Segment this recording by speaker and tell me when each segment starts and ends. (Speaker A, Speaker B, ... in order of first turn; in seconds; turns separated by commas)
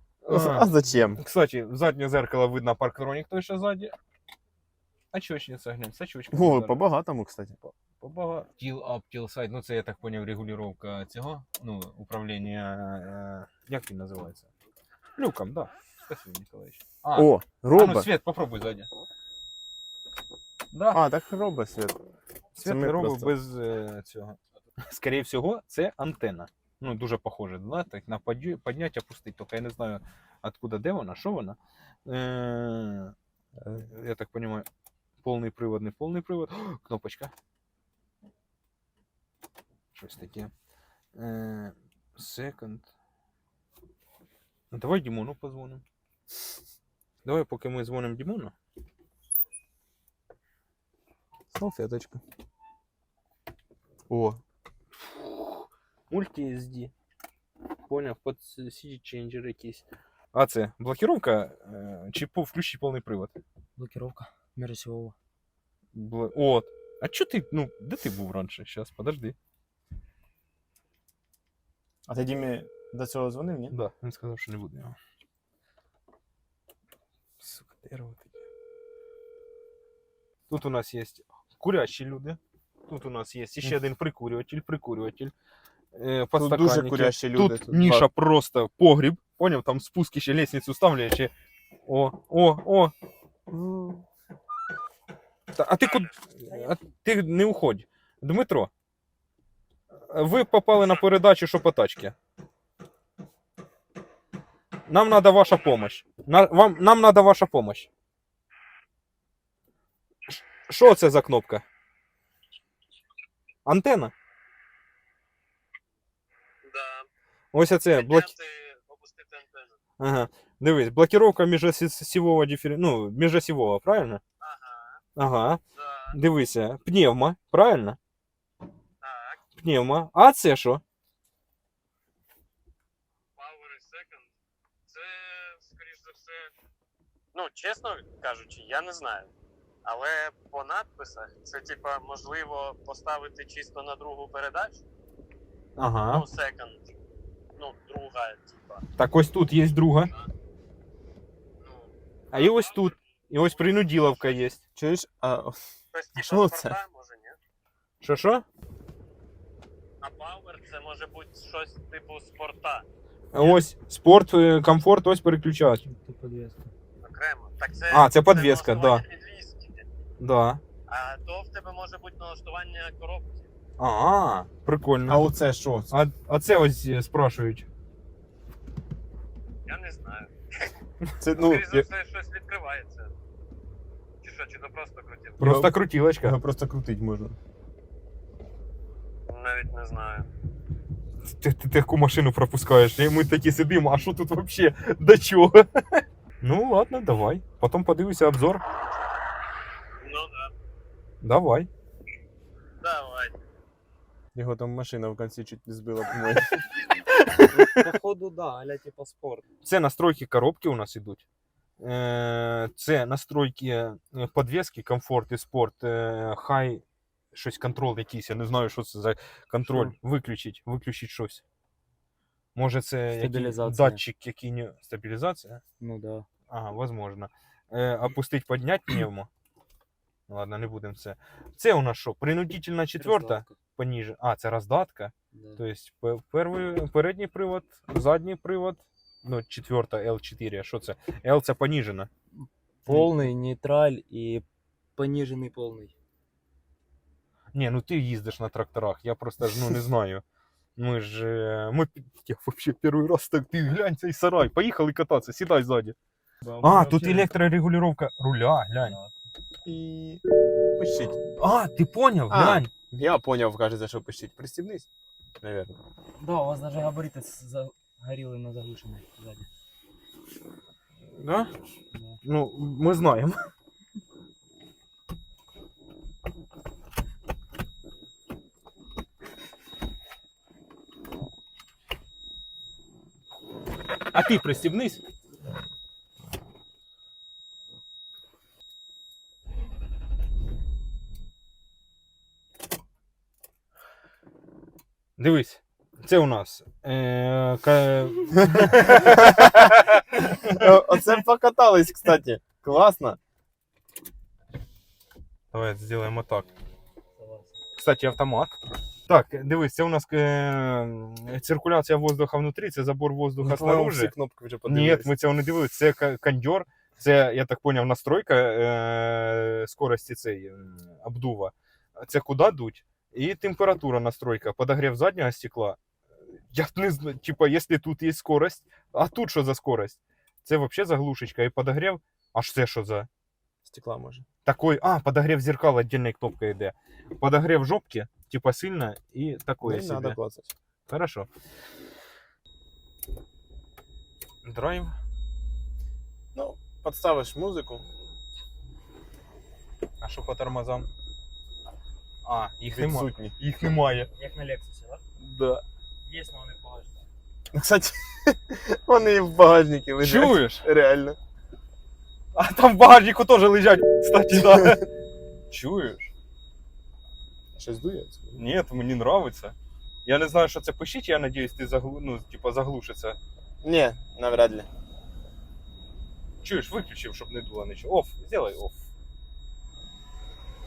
Speaker A: 0.2-3.9, Speaker B: 0.3-1.2, Speaker A: 5.1-6.8, Speaker B: 6.3-7.5, Speaker A: 7.6-14.5, Speaker A: 15.2-18.9, Speaker B: 17.1-18.1, Speaker A: 20.7-21.0, Speaker B: 20.9-22.0, Speaker A: 22.6-33.1, Speaker B: 22.6-23.3, Speaker B: 33.6-33.9, Speaker A: 33.8-34.7, Speaker A: 35.2-37.3, Speaker A: 40.0-40.5, Speaker A: 41.1-42.9, Speaker A: 44.7-45.8, Speaker A: 47.2-48.5, Speaker B: 51.5-52.2, Speaker B: 54.1-54.4, Speaker A: 55.2-56.9, Speaker A: 57.9-63.4, Speaker C: 63.8-65.1, Speaker A: 65.9-69.3, Speaker B: 72.1-73.8, Speaker A: 73.7-75.0, Speaker A: 77.4-78.4, Speaker A: 80.5-85.3, Speaker A: 85.9-91.3, Speaker B: 86.4-88.1, Speaker A: 91.9-92.9, Speaker B: 93.5-94.0, Speaker A: 95.5-98.7, Speaker A: 100.1-102.2, Speaker A: 104.9-107.9, Speaker A: 110.3-111.6, Speaker A: 113.7-114.1, Speaker D: 116.6-117.1, Speaker A: 117.5-118.3, Speaker D: 117.9-119.8, Speaker A: 120.0-124.2, Speaker D: 124.4-125.0, Speaker A: 125.2-125.6, Speaker D: 125.8-126.1, Speaker A: 126.1-128.0, Speaker D: 129.0-129.4, Speaker A: 129.6-130.8, Speaker D: 133.4-134.3, Speaker D: 134.9-136.5, Speaker D: 137.3-139.3, Speaker D: 139.8-144.8, Speaker A: 145.8-146.3, Speaker D: 146.1-146.9, Speaker D: 147.6-148.8, Speaker A: 149.0-150.1, Speaker D: 151.6-152.9, Speaker A: 152.3-154.6, Speaker B: 154.8-155.6, Speaker D: 155.9-157.4, Speaker B: 156.2-156.8, Speaker A: 158.0-158.4, Speaker D: 160.0-162.8, Speaker A: 163.3-165.8, Speaker C: 165.9-166.7, Speaker D: 167.0-169.9, Speaker A: 167.9-169.0, Speaker A: 170.2-170.6, Speaker D: 170.9-173.5, Speaker A: 173.8-175.3, Speaker B: 175.1-175.9, Speaker A: 175.9-177.7, Speaker D: 179.7-180.7, Speaker B: 181.2-181.9, Speaker D: 181.4-183.1, Speaker D: 184.2-185.4, Speaker A: 185.4-186.4, Speaker B: 185.4-187.4, Speaker D: 189.3-190.3, Speaker A: 191.3-198.6, Speaker D: 200.0-200.5, Speaker A: 201.2-201.7, Speaker D: 202.8-203.3, Speaker B: 204.3-206.7, Speaker A: 207.1-207.7, Speaker C: 207.5-209.4, Speaker A: 209.6-211.2, Speaker A: 211.8-221.4, Speaker C: 219.7-219.9, Speaker A: 222.6-225.6, Speaker C: 223.2-224.0, Speaker C: 225.8-226.3, Speaker A: 226.5-229.3, Speaker A: 230.3-242.1, Speaker C: 232.9-233.6, Speaker C: 235.3-235.6, Speaker C: 242.9-244.4, Speaker C: 245.0-245.9, Speaker A: 247.5-250.2, Speaker A: 250.8-256.0, Speaker C: 256.5-257.3, Speaker A: 256.6-259.0, Speaker B: 259.6-260.2, Speaker B: 260.8-261.2, Speaker A: 261.4-262.7, Speaker B: 262.3-264.9, Speaker B: 265.4-265.8, Speaker C: 266.2-269.5, Speaker A: 271.2-271.6, Speaker A: 272.2-273.4, Speaker A: 284.1-285.0, Speaker A: 295.2-300.6, Speaker B: 299.0-299.5, Speaker B: 300.4-303.2, Speaker A: 305.5-306.5, Speaker C: 307.2-307.5, Speaker A: 307.8-314.1, Speaker B: 313.4-315.1, Speaker A: 314.7-325.8, Speaker A: 326.5-333.1, Speaker B: 333.7-334.3, Speaker A: 334.4-340.2, Speaker B: 339.6-340.5, Speaker A: 340.9-341.3, Speaker A: 344.4-345.0, Speaker B: 346.4-347.9, Speaker A: 350.0-350.9, Speaker A: 352.2-354.1, Speaker B: 352.8-353.4, Speaker C: 354.1-355.0, Speaker A: 355.2-355.6, Speaker C: 356.1-357.0, Speaker B: 357.5-361.2, Speaker A: 360.0-360.7, Speaker A: 362.4-364.9, Speaker A: 365.5-366.1, Speaker B: 367.6-368.4, Speaker A: 368.4-373.2, Speaker B: 373.6-374.7, Speaker A: 376.4-378.9